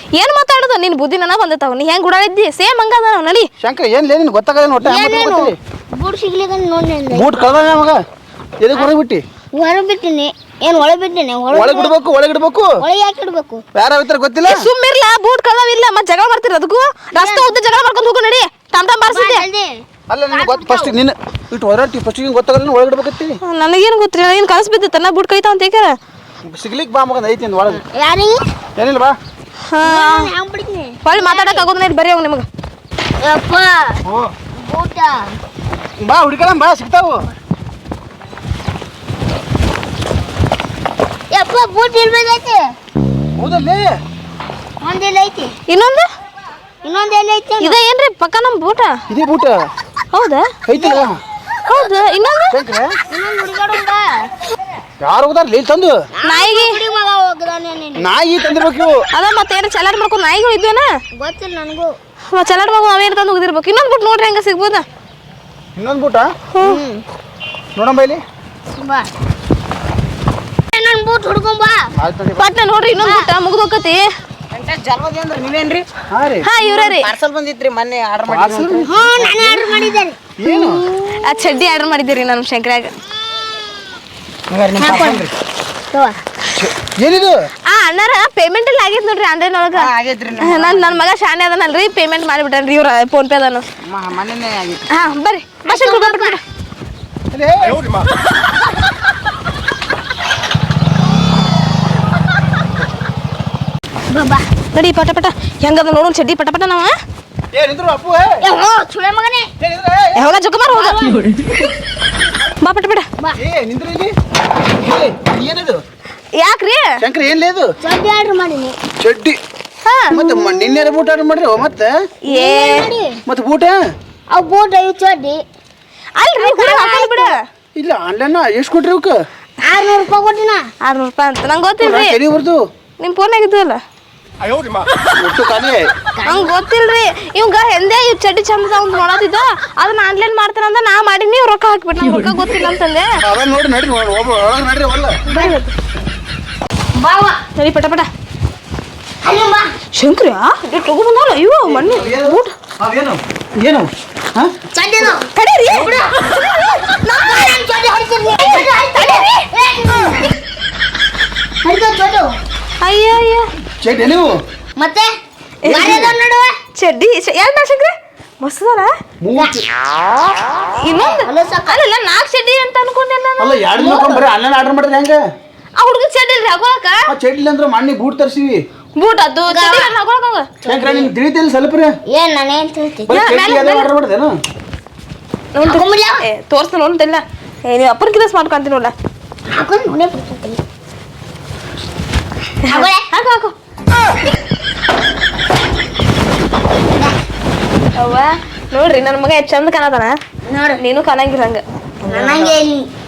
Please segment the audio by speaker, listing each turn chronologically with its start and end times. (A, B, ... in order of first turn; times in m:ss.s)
0:00.1-0:03.5 A
0:03.6-0:05.5 B
0:04.8-0:07.3 C
0:07.1-0:08.0 B
0:08.6-0:09.2 B
0:09.5-0:12.0 C
0:11.5-0:12.7 B
0:12.8-0:13.6 C
0:13.7-0:14.7 B
0:14.4-0:19.4 A
0:17.1-0:17.6 C
0:19.1-0:19.7 C
0:20.1-0:23.4 B
0:20.3-0:20.9 C
0:23.4-0:26.0 A
0:26.4-0:27.8 B
0:27.7-0:28.4 C
0:28.8-0:29.2 B
0:29.7-0:30.3 A
0:29.8-0:31.7 C
0:31.0-0:32.4 A
0:33.2-0:34.0 C
0:34.0-0:34.3 B
0:34.6-0:35.3 C
0:36.0-0:37.2 B
0:41.3-0:42.6 C
0:43.4-0:43.9 B
0:44.8-0:45.5 C
0:45.7-0:46.1 A
0:46.8-0:47.8 C
0:47.6-0:49.0 A
0:49.1-0:49.6 B
0:50.1-0:50.5 A
0:50.7-0:51.2 B
0:51.6-0:52.5 A
0:52.5-0:52.9 B
0:53.1-0:54.3 C
0:55.0-0:56.0 B
0:56.2-0:58.1 C
0:56.2-0:56.8 A
0:58.0-0:59.0 B
0:59.1-1:00.9 A
1:01.1-1:01.9 C
1:02.3-1:04.8 A
1:05.8-1:06.3 B
1:06.5-1:06.8 A
1:06.6-1:07.0 C
1:07.8-1:08.2 B
1:08.7-1:09.1 C
1:10.7-1:11.9 C
1:12.0-1:12.5 B
1:12.4-1:14.1 A
1:12.9-1:13.3 C
1:14.5-1:15.8 D
1:16.1-1:16.5 B
1:16.4-1:17.1 A
1:16.6-1:19.6 D
1:18.3-1:19.0 B
1:18.9-1:20.2 C
1:20.4-1:20.8 B
1:20.5-1:22.9 A
1:24.5-1:25.3 D
1:24.7-1:25.2 B
1:24.8-1:25.2 C
1:25.9-1:26.2 C
1:26.6-1:27.4 B
1:27.7-1:33.6 A
1:29.8-1:31.0 D
1:33.9-1:34.7 B
1:34.3-1:34.8 D
1:34.9-1:36.4 A
1:35.6-1:36.4 C
1:37.3-1:38.0 B
1:44.1-1:44.4 C
1:44.7-1:46.9 A
1:47.5-1:48.4 B
1:48.4-1:49.5 C
1:49.6-1:50.3 B
1:50.1-1:51.1 A
1:50.7-1:51.3 C
1:52.6-1:53.0 A
1:53.4-1:54.1 B
1:54.8-1:55.8 B
1:56.3-1:56.9 A
1:57.0-1:57.7 B
1:57.8-1:58.8 C
1:59.0-1:59.4 B
1:59.8-2:00.2 A
2:00.1-2:01.9 B
2:02.2-2:02.8 A
2:02.3-2:03.2 C
2:03.3-2:03.8 B
2:04.3-2:05.4 C
2:06.2-2:07.4 A
2:06.4-2:07.3 C
2:07.8-2:09.2 B
2:09.6-2:10.7 C
2:10.8-2:12.2 A
2:11.8-2:12.6 B
2:13.0-2:13.8 A
2:15.2-2:15.9 B
2:16.2-2:16.5 C
2:16.2-2:23.1 A
2:23.2-2:25.2 B
2:25.3-2:25.6 C
2:25.3-2:25.7 A
2:27.0-2:27.4 C
2:27.6-2:28.1 A
2:29.2-2:29.7 C
2:29.9-2:32.5 A
2:31.7-2:34.5 B
2:34.7-2:36.1 C
2:35.1-2:37.5 A
2:37.1-2:40.3 C
2:38.6-2:39.4 A
2:41.6-2:42.3 C
2:42.8-2:43.5 A
2:43.8-2:44.3 B
2:44.8-2:45.1 C
2:45.6-2:46.0 A
2:45.6-2:46.5 C
2:45.7-2:46.1 B
2:46.7-2:48.9 A
2:49.2-2:49.6 B
2:50.8-2:54.0 A
2:50.9-2:51.8 C
2:53.4-2:55.2 B
2:55.8-2:57.1 A
2:57.1-2:58.6 B
2:59.0-3:00.5 A
2:59.5-2:59.9 C
3:00.6-3:02.0 B
3:00.7-3:01.1 C
3:02.1-3:03.4 C
3:03.1-3:04.3 B
3:03.1-3:03.9 A
3:05.5-3:08.9 A
3:05.6-3:06.2 C
3:09.5-3:10.6 C
3:12.6-3:13.1 C
3:12.7-3:13.5 A
3:18.0-3:20.2 A
3:20.5-3:20.8 C
3:20.8-3:21.6 A
3:22.0-3:22.9 C
3:22.2-3:22.5 A